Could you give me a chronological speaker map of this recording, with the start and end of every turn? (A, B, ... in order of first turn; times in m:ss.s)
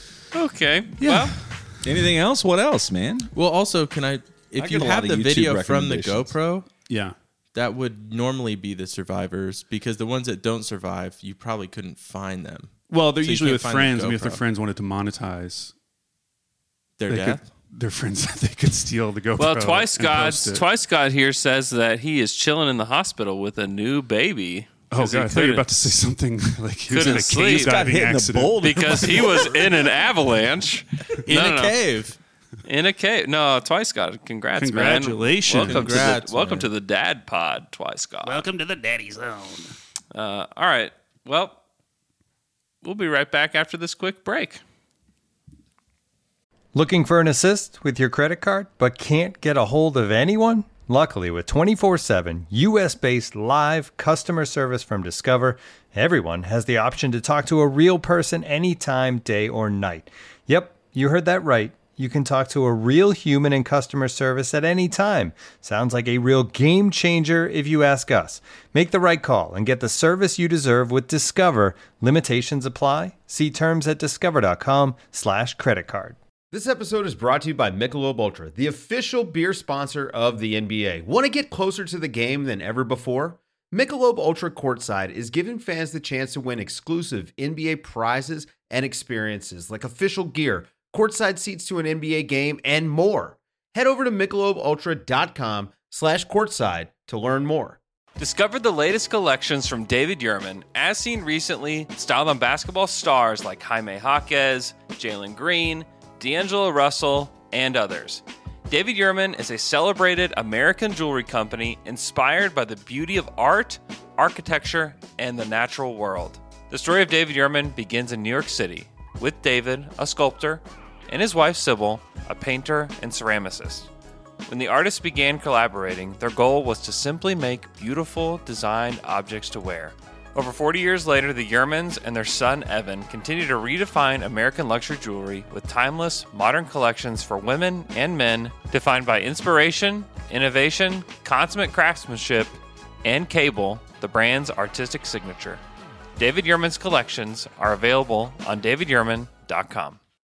0:00.3-0:01.4 A
0:01.0-0:01.8 B
0:01.8-0:03.3 C
0:03.3-0:06.7 D
0:04.6-0:06.4 C
0:06.9-0:07.1 B
0:07.5-0:14.4 D
0:12.9-0:15.7 B
0:17.0-0:17.4 D
0:17.1-0:20.6 B
0:19.4-0:25.7 A
0:24.9-0:29.3 B
0:26.9-0:27.9 A
0:27.4-0:29.9 C
0:28.6-0:31.8 A
0:31.2-0:32.2 D
0:32.6-0:38.4 A
0:34.6-0:36.1 B
0:35.6-0:36.7 D
0:38.2-0:39.7 B
0:40.1-0:41.6 A
0:42.8-0:44.6 A
0:46.7-1:16.2 E
1:16.5-1:37.8 F
1:38.2-2:03.9 A
2:04.5-2:25.6 A
2:26.2-2:30.0 A